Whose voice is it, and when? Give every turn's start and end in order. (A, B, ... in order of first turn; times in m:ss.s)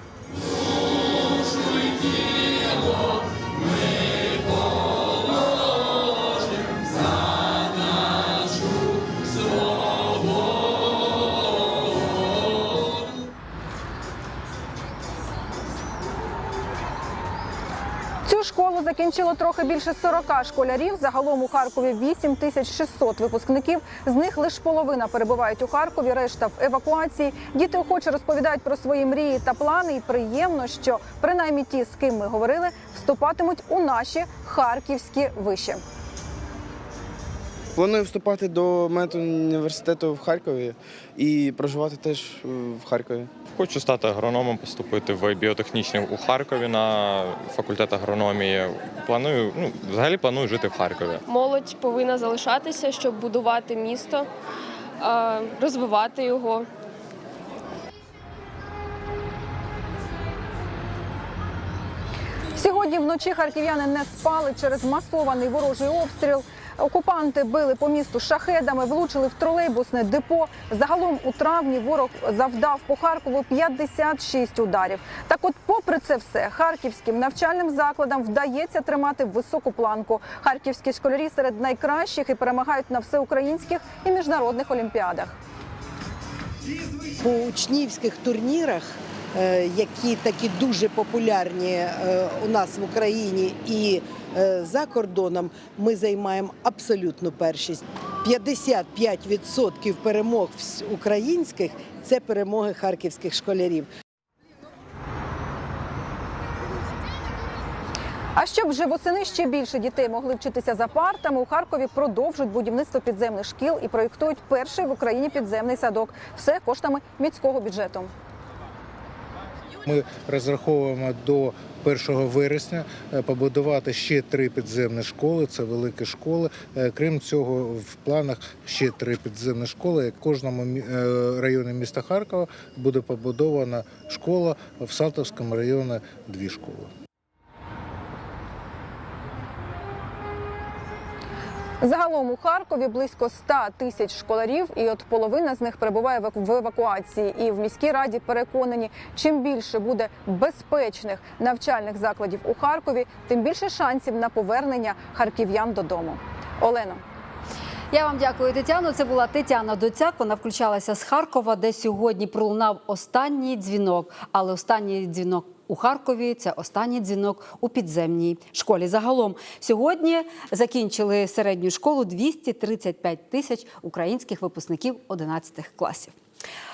0:18.2-0:35.8 A
0:37.7-0:43.3 B
0:43.5-0:51.2 C
0:51.2-0:54.3 D
0:55.0-0:56.7 D
1:02.5-1:25.4 A
1:27.1-1:43.9 E
1:48.4-1:58.1 A
1:59.8-2:16.9 F
2:21.8-2:37.0 A
2:37.9-2:56.2 G